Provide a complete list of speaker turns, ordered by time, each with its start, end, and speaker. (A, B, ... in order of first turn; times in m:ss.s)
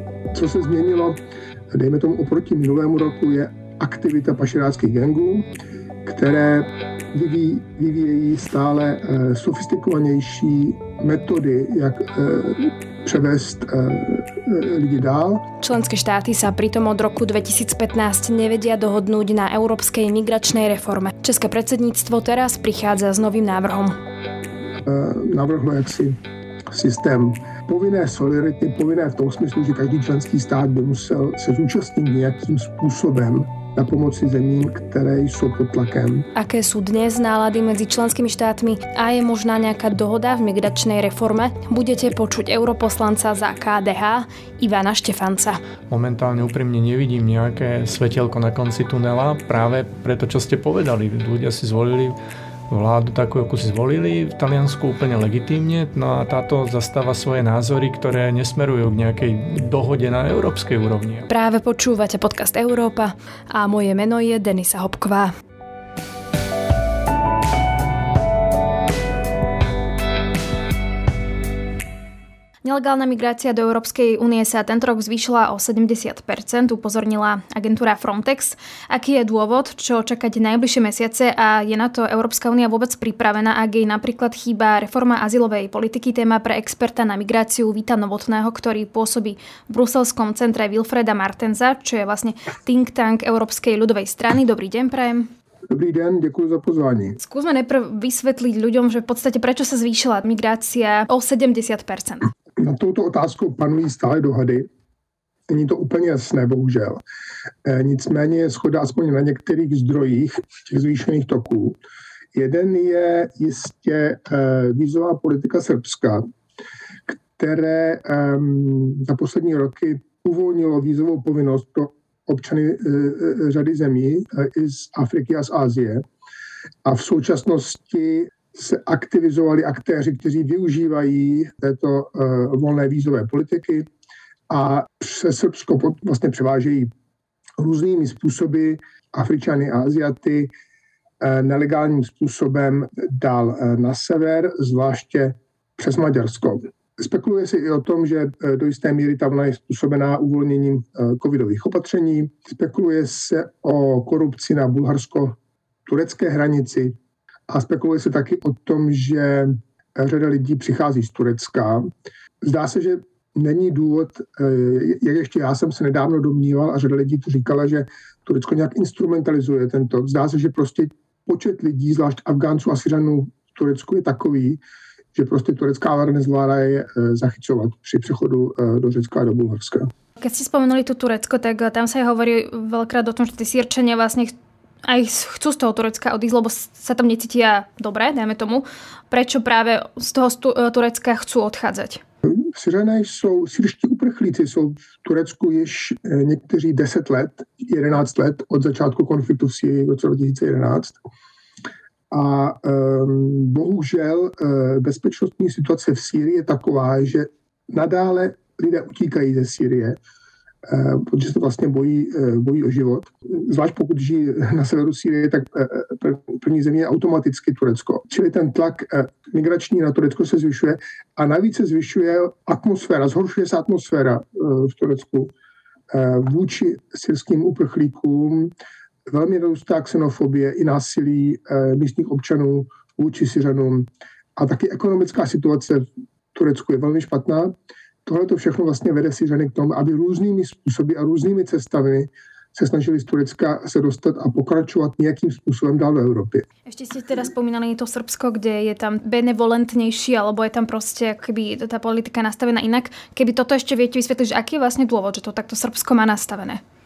0:00.3-0:01.2 A
0:01.7-0:05.5 A
0:06.0-0:15.5 A
0:15.6-0:24.0 B
0:24.8-0:26.2 A
0:26.7-0:36.3 A
0:36.4-0:45.6 B
0:45.9-0:52.2 C
0:52.7-1:01.3 C
1:01.3-1:05.3 B
1:12.6-1:35.3 B
1:35.7-1:37.2 A
1:37.2-1:42.3 B
1:42.6-1:44.7 A
1:45.5-1:47.0 A
1:47.6-1:51.8 A
1:52.3-1:56.2 A
1:57.1-2:06.0 A
2:06.8-2:13.9 A
2:14.5-2:16.9 A
2:17.6-2:20.5 A
2:21.2-2:37.0 A
2:37.5-2:41.8 A
2:42.4-2:54.6 A
2:55.1-2:59.9 A
3:00.2-3:04.3 B
3:04.8-3:12.0 B
3:12.3-3:21.0 A
3:22.1-3:30.0 A
3:30.6-3:45.3 A
3:45.9-3:48.5 A
3:49.1-3:57.5 A
3:58.1-4:06.5 A
4:06.7-4:16.6 B